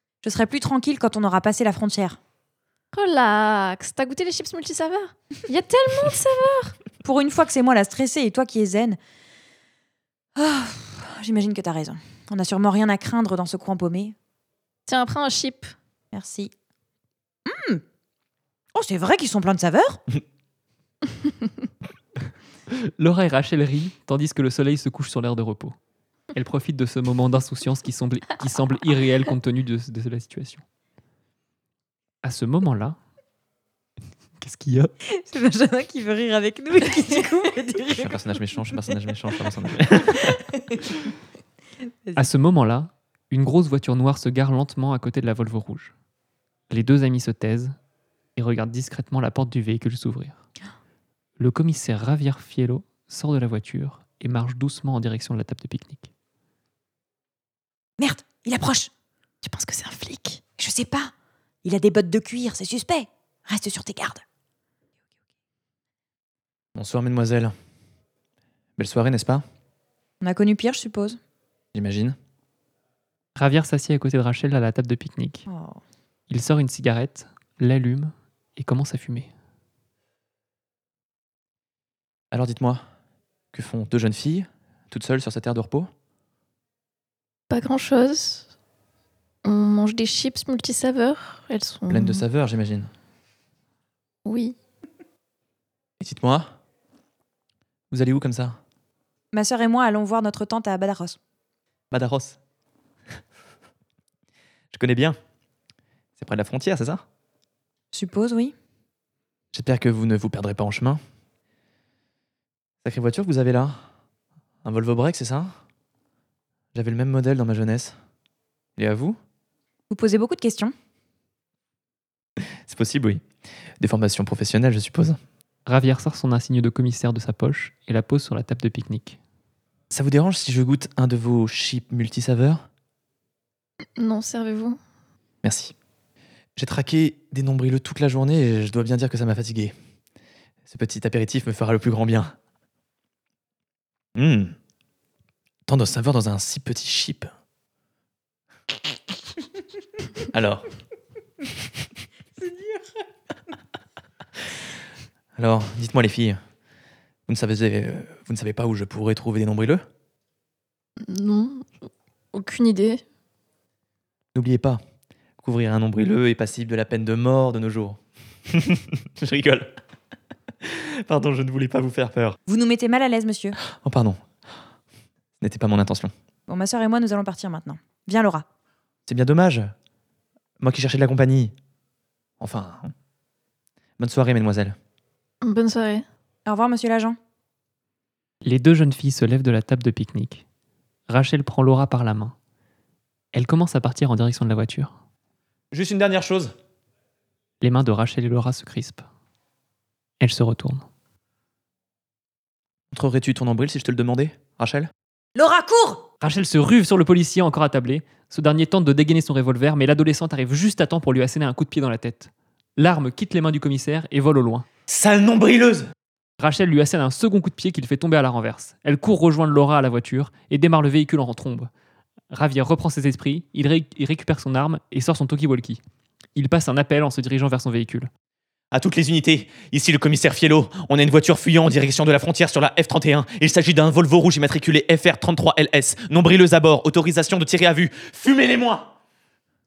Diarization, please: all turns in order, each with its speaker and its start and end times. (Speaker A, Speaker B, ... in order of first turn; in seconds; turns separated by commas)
Speaker A: 0.2-2.2, Speaker B: 2.9-6.8, Speaker A: 7.0-9.0, Speaker A: 10.4-14.2, Speaker B: 14.9-15.7, Speaker A: 16.1-16.5, Speaker A: 17.4-17.8, Speaker A: 18.7-20.0, Speaker C: 22.8-25.8, Speaker C: 26.3-30.6, Speaker C: 32.2-33.0, Speaker C: 34.4-34.9, Speaker A: 35.0-38.9, Speaker D: 37.9-40.5, Speaker A: 40.1-40.9, Speaker C: 42.2-45.9, Speaker C: 46.7-47.8, Speaker C: 48.4-50.4, Speaker C: 51.4-56.1, Speaker A: 58.0-58.9, Speaker B: 59.5-60.4, Speaker A: 60.4-61.1, Speaker A: 61.6-64.2, Speaker D: 66.8-67.5, Speaker D: 68.8-69.4, Speaker A: 70.2-71.2, Speaker D: 71.7-72.2, Speaker C: 73.4-75.5, Speaker A: 75.5-75.8, Speaker C: 76.3-79.3, Speaker D: 82.3-82.8, Speaker D: 83.5-85.9, Speaker B: 87.5-88.5, Speaker B: 89.4-92.2, Speaker D: 91.9-92.9, Speaker B: 94.2-94.6, Speaker D: 96.0-96.5, Speaker D: 97.9-98.6, Speaker A: 99.3-101.2, Speaker D: 101.9-102.4, Speaker D: 104.7-105.2, Speaker D: 106.2-107.0, Speaker A: 107.9-108.5, Speaker D: 109.5-111.0, Speaker D: 112.8-113.8, Speaker D: 114.6-115.5, Speaker D: 116.7-118.0, Speaker D: 118.8-119.2, Speaker A: 119.9-120.7, Speaker D: 122.7-123.2, Speaker D: 123.8-125.2, Speaker C: 125.7-129.2, Speaker D: 129.9-132.6, Speaker B: 134.0-134.8, Speaker D: 135.4-135.7, Speaker D: 136.6-139.7, Speaker D: 140.7-142.3, Speaker D: 144.2-144.6, Speaker D: 145.7-147.3, Speaker D: 150.3-150.7, Speaker A: 152.4-152.9, Speaker D: 155.4-156.4, Speaker D: 157.3-159.8, Speaker B: 161.0-161.7, Speaker B: 162.3-163.0, Speaker D: 164.3-164.8, Speaker D: 165.4-169.7, Speaker D: 170.6-172.4, Speaker A: 172.5-173.6, Speaker D: 173.8-174.2, Speaker D: 175.4-176.1, Speaker A: 176.5-178.5, Speaker D: 179.1-179.7, Speaker D: 180.6-181.5, Speaker D: 182.4-182.9, Speaker D: 184.0-184.8, Speaker B: 185.4-186.1, Speaker A: 186.5-187.2, Speaker C: 188.4-190.4, Speaker C: 191.1-192.3, Speaker C: 193.3-194.9, Speaker D: 195.7-196.5, Speaker C: 197.6-199.1, Speaker C: 200.2-200.9, Speaker D: 202.9-204.9, Speaker A: 205.3-206.1, Speaker C: 206.2-214.7, Speaker D: 214.9-215.9, Speaker C: 216.4-221.7, Speaker C: 222.3-225.8, Speaker C: 226.3-228.1, Speaker D: 228.7-238.9